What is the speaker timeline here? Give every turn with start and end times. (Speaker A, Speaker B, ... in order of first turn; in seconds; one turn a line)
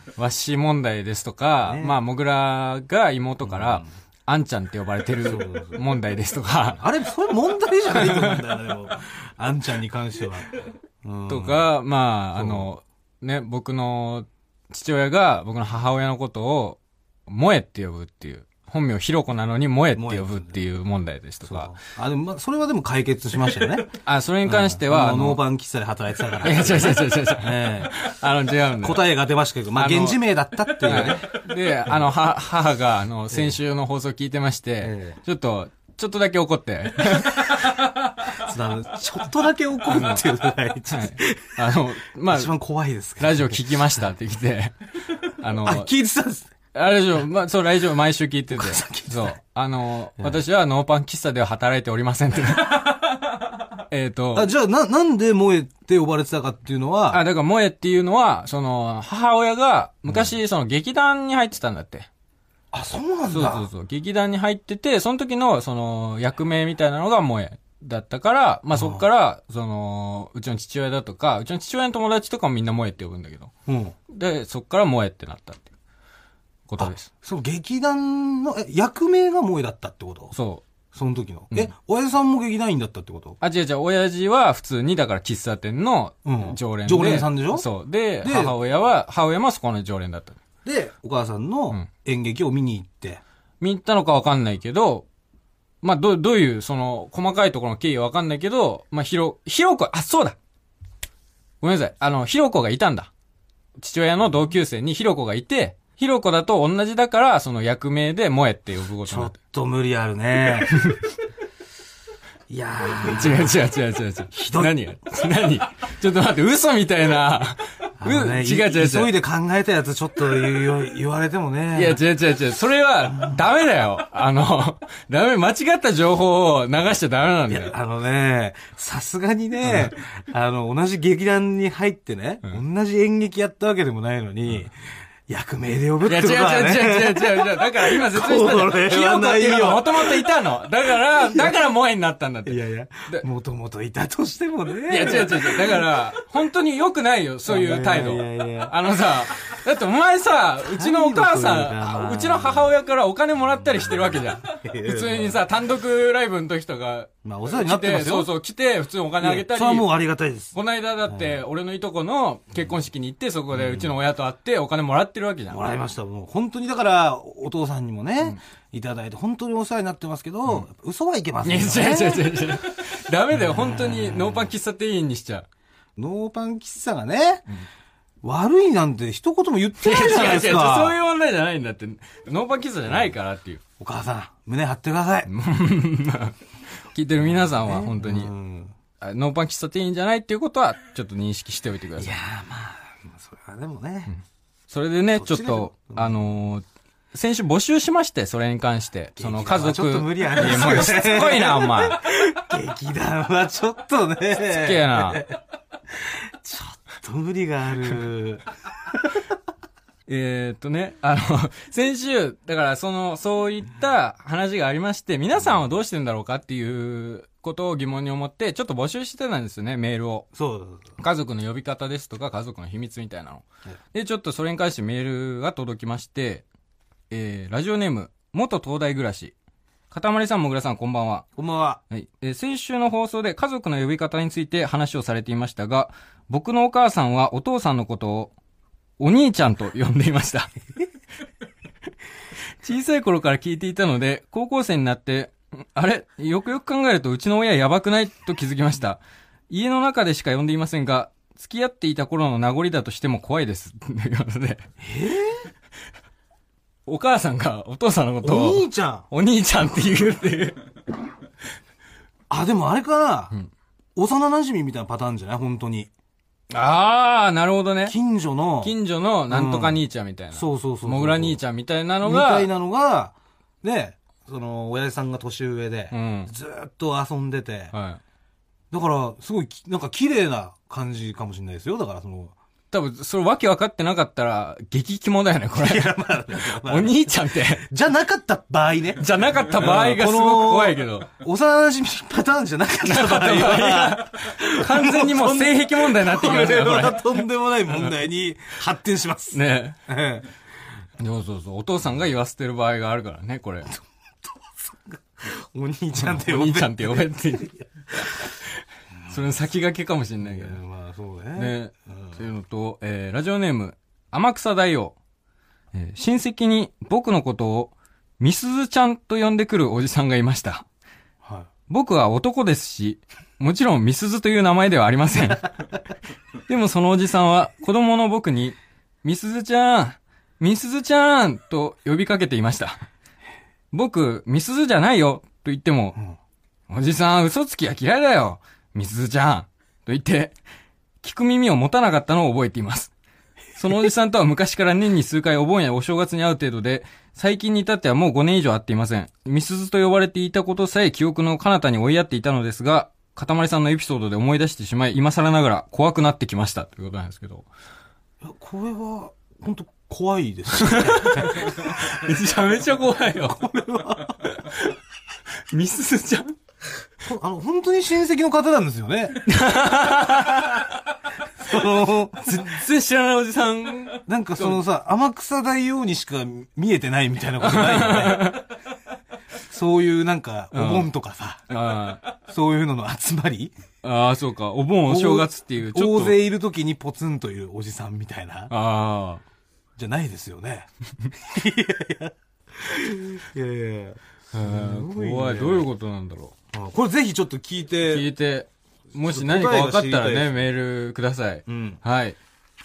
Speaker A: 0.2-6.8
Speaker B: 1.6-2.0
Speaker B: 3.4-3.9
Speaker B: 5.2-5.8
Speaker B: 6.8-11.7
Speaker A: 8.0-8.4
Speaker A: 11.3-21.8
Speaker B: 12.4-12.7
Speaker B: 19.9-20.6
Speaker B: 21.5-23.9
Speaker A: 23.9-25.4
Speaker B: 24.4-28.0
Speaker A: 26.4-29.0
Speaker B: 28.7-31.4
Speaker A: 29.8-30.2
Speaker A: 30.7-37.8
Speaker B: 34.8-35.2
Speaker B: 37.6-43.8
Speaker A: 39.9-40.2
Speaker A: 40.9-42.5
Speaker A: 43.2-45.9
Speaker B: 45.6-46.5
Speaker A: 46.7-53.0
Speaker B: 48.5-49.4
Speaker A: 53.9-54.5
Speaker B: 54.3-57.2
Speaker A: 57.1-62.1
Speaker B: 62.7-63.7
Speaker A: 63.3-73.5
Speaker B: 68.7-69.0
Speaker B: 73.7-74.0
Speaker A: 74.1-75.7
Speaker A: 76.7-77.1
Speaker B: 76.8-80.3
Speaker A: 80.3-80.7
Speaker B: 80.9-83.4
Speaker A: 83.4-90.4
Speaker B: 86.2-87.7
Speaker B: 88.2-88.5
Speaker B: 90.7-93.2
Speaker A: 93.6-95.1
Speaker A: 95.8-100.4
Speaker A: 101.6-103.1
Speaker A: 103.8-109.3
Speaker B: 109.0-110.8
Speaker A: 110.7-111.0
Speaker B: 112.5-113.7
Speaker A: 112.9-119.1
Speaker B: 114.3-114.8
Speaker B: 118.0-122.0
Speaker A: 121.7-127.8
Speaker B: 127.5-140.3
Speaker A: 129.6-129.9
Speaker A: 136.1-142.6
Speaker B: 141.1-141.6
Speaker B: 142.5-145.9
Speaker A: 144.9-159.9
Speaker B: 147.5-148.8
Speaker B: 150.6-152.7
Speaker B: 153.6-155.4
Speaker B: 157.2-158.3
Speaker B: 159.2-160.6
Speaker A: 160.5-165.7
Speaker B: 161.1-161.4
Speaker B: 163.5-163.9
Speaker B: 165.5-172.6
Speaker A: 171.4-175.5
Speaker B: 173.3-174.5
Speaker B: 176.0-177.5
Speaker B: 178.2-181.0
Speaker A: 179.8-183.6
Speaker B: 183.8-185.3
Speaker A: 185.3-186.4
Speaker A: 186.9-188.3
Speaker B: 187.2-188.8
Speaker A: 189.0-192.2
Speaker B: 192.0-194.1
Speaker A: 194.1-202.0
Speaker B: 195.1-196.2
Speaker B: 199.2-205.4
Speaker A: 204.4-205.2
Speaker B: 205.9-209.2
Speaker A: 210.1-220.3
Speaker B: 220.3-221.0
Speaker A: 221.0-226.4
Speaker A: 227.1-229.3
Speaker A: 229.9-231.3
Speaker B: 231.4-231.8
Speaker A: 231.9-238.3
Speaker A: 239.0-240.5
Speaker A: 242.6-254.7
Speaker B: 254.8-255.5
Speaker A: 256.9-260.6
Speaker B: 258.2-259.1
Speaker B: 262.3-263.3
Speaker B: 263.9-265.9
Speaker A: 266.5-268.0
Speaker B: 267.9-268.7
Speaker A: 268.6-272.5
Speaker B: 269.3-269.8
Speaker B: 270.3-271.4
Speaker B: 272.0-277.7
Speaker A: 275.9-276.3
Speaker A: 277.7-278.0
Speaker B: 278.7-282.4
Speaker A: 282.7-287.7
Speaker B: 285.6-300.3
Speaker A: 289.0-291.1
Speaker A: 292.8-297.9
Speaker A: 299.3-299.8
Speaker A: 301.0-303.7
Speaker B: 304.2-308.1
Speaker A: 305.9-307.6
Speaker A: 309.1-310.6
Speaker B: 310.2-312.2
Speaker A: 311.4-315.0
Speaker A: 315.7-320.7
Speaker B: 321.2-321.5
Speaker A: 321.7-325.7
Speaker A: 326.5-332.8
Speaker A: 333.7-336.0
Speaker A: 336.7-340.4
Speaker A: 341.0-342.9
Speaker A: 343.6-357.5
Speaker B: 358.2-362.0
Speaker A: 360.6-363.4
Speaker B: 363.2-364.2
Speaker A: 364.2-364.8
Speaker A: 365.5-366.4
Speaker B: 367.0-369.3
Speaker A: 369.2-370.8
Speaker B: 371.4-372.6
Speaker A: 372.2-374.6
Speaker B: 374.1-378.4
Speaker A: 377.4-378.5
Speaker B: 379.5-381.5
Speaker A: 380.5-380.9
Speaker A: 381.5-382.1
Speaker B: 382.1-383.5
Speaker A: 383.8-386.2
Speaker B: 384.9-388.5
Speaker A: 388.5-389.2
Speaker B: 389.8-395.7
Speaker A: 394.3-396.4
Speaker B: 396.5-398.1
Speaker A: 397.9-402.2
Speaker B: 399.1-400.4
Speaker B: 401.5-401.8